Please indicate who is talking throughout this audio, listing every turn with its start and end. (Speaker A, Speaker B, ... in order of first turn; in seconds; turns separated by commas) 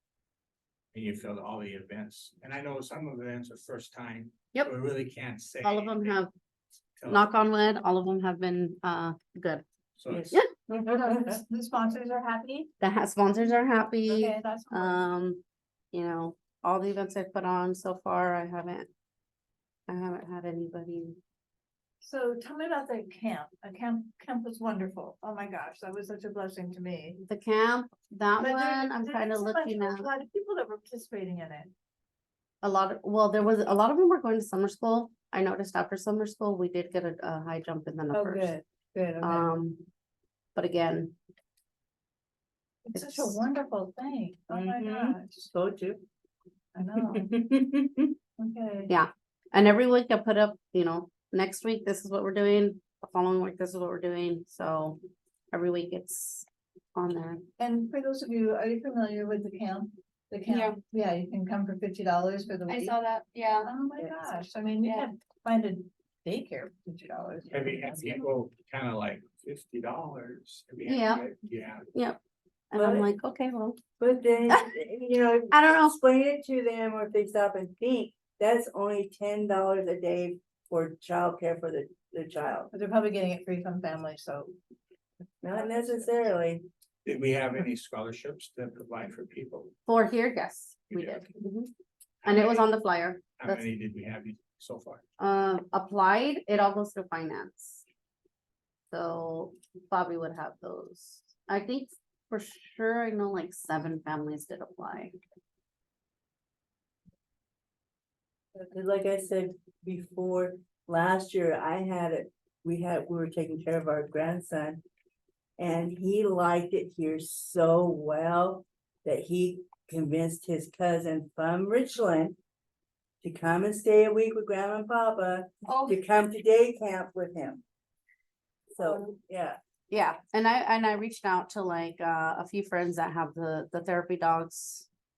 Speaker A: 0.9-6.2, Speaker B: 5.6-6.3, Speaker A: 7.0-7.3, Speaker B: 7.0-9.6, Speaker A: 10.0-10.4, Speaker C: 10.1-11.4, Speaker D: 10.9-12.7, Speaker B: 12.8-15.4, Speaker D: 14.1-15.1, Speaker B: 15.9-18.9, Speaker B: 19.9-21.2, Speaker D: 22.0-27.2, Speaker B: 27.2-30.1, Speaker D: 28.4-31.7, Speaker B: 32.6-38.5, Speaker D: 38.1-39.5, Speaker B: 39.2-39.8, Speaker B: 40.5-41.1, Speaker D: 42.8-45.5, Speaker B: 42.9-43.3, Speaker C: 44.5-46.0, Speaker D: 46.7-47.3, Speaker C: 47.0-48.1, Speaker D: 48.4-48.9, Speaker B: 48.9-55.0, Speaker B: 55.5-57.4, Speaker D: 57.6-63.0, Speaker B: 60.5-60.8, Speaker B: 62.7-63.7, Speaker D: 63.6-68.2, Speaker C: 64.0-64.3, Speaker A: 67.5-71.9, Speaker B: 70.8-71.2, Speaker B: 71.9-72.2, Speaker B: 72.7-73.8, Speaker C: 72.8-73.1, Speaker C: 74.0-82.7, Speaker B: 75.5-76.0, Speaker D: 82.7-84.5, Speaker C: 85.4-86.7, Speaker D: 85.5-86.0, Speaker A: 87.0-89.8, Speaker B: 89.9-91.7, Speaker A: 90.9-91.3, Speaker A: 92.2-92.7, Speaker B: 92.2-93.7, Speaker A: 93.4-95.0, Speaker B: 95.2-97.8, Speaker B: 98.9-105.2, Speaker C: 108.5-114.8, Speaker C: 115.6-122.3, Speaker C: 123.2-127.6, Speaker B: 125.7-126.0, Speaker C: 128.8-129.6, Speaker B: 129.9-134.9